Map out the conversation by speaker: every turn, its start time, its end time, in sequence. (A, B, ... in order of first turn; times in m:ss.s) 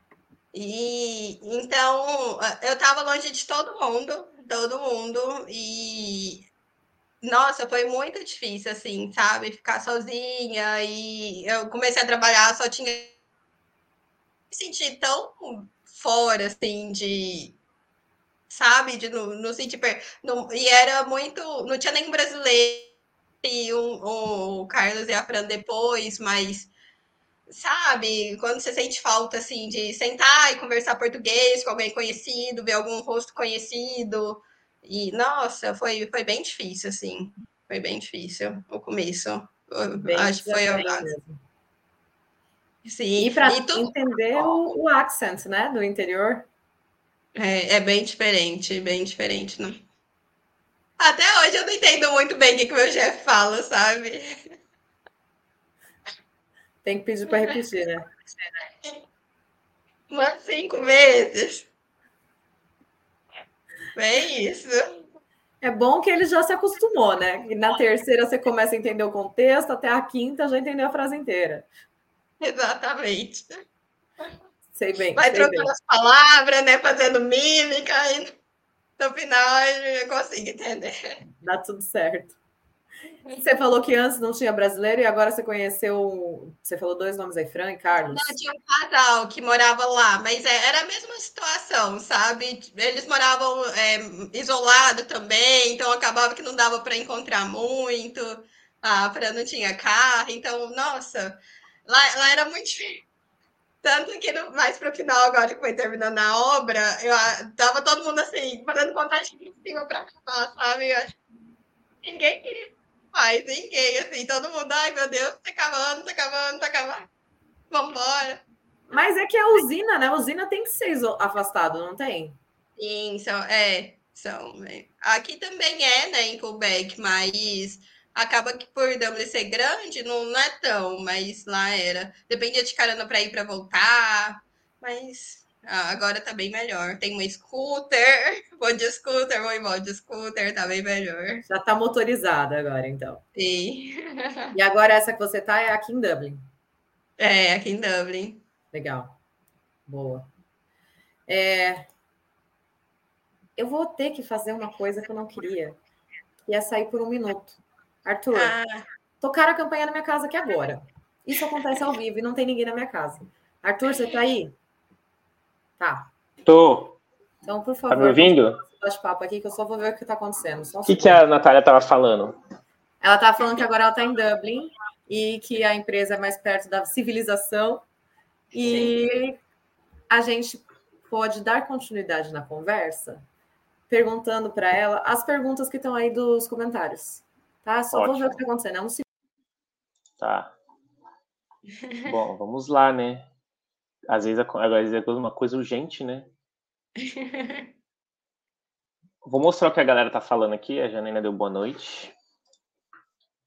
0:00.5-0:06.5 A
0:07.2-0:13.1 A
0:14.5-0:17.6 A
0:18.5-0:26.7 A
0:27.5-0:41.1 A
0:39.9-0:41.4 B
0:42.8-0:44.8 A
0:43.2-0:46.5 B
0:47.4-0:49.8 A
0:51.0-0:54.3 A
0:56.8-0:58.1 B
1:00.1-1:01.7 A
1:03.9-1:04.9 A
1:05.6-1:11.7 B
1:12.4-1:13.5 A
1:14.7-1:15.7 B
1:15.2-1:18.4 A
1:19.0-1:21.2 A
1:21.4-1:22.4 B
1:23.3-1:28.4 B
1:28.0-1:43.0 A
1:43.8-1:51.1 A
1:52.0-1:57.1 A
1:57.7-1:58.4 A
1:58.9-2:02.4 B
2:02.8-2:21.4 A
2:21.5-2:23.2 B
2:23.4-2:24.6 A
2:24.5-2:26.5 B
2:27.2-2:28.4 A
2:28.7-2:29.2 B
2:29.8-2:30.3 B
2:31.3-2:31.9 B
2:33.6-2:35.8 B
2:36.4-2:38.6 B
2:38.3-2:38.8 A
2:39.2-2:44.6 B
2:45.8-2:46.1 B
2:46.4-2:47.0 C
2:47.4-2:51.2 B
2:47.9-2:48.6 C
2:50.8-2:52.4 C
2:53.0-2:57.8 B
2:58.5-2:59.4 B
2:58.6-2:58.9 C
3:00.1-3:03.2 B
3:03.9-3:09.0 B
3:07.9-3:08.4 C
3:10.2-3:10.5 C
3:12.0-3:13.3 C
3:14.1-3:16.3 C
3:17.0-3:17.6 A
3:19.2-3:22.1 C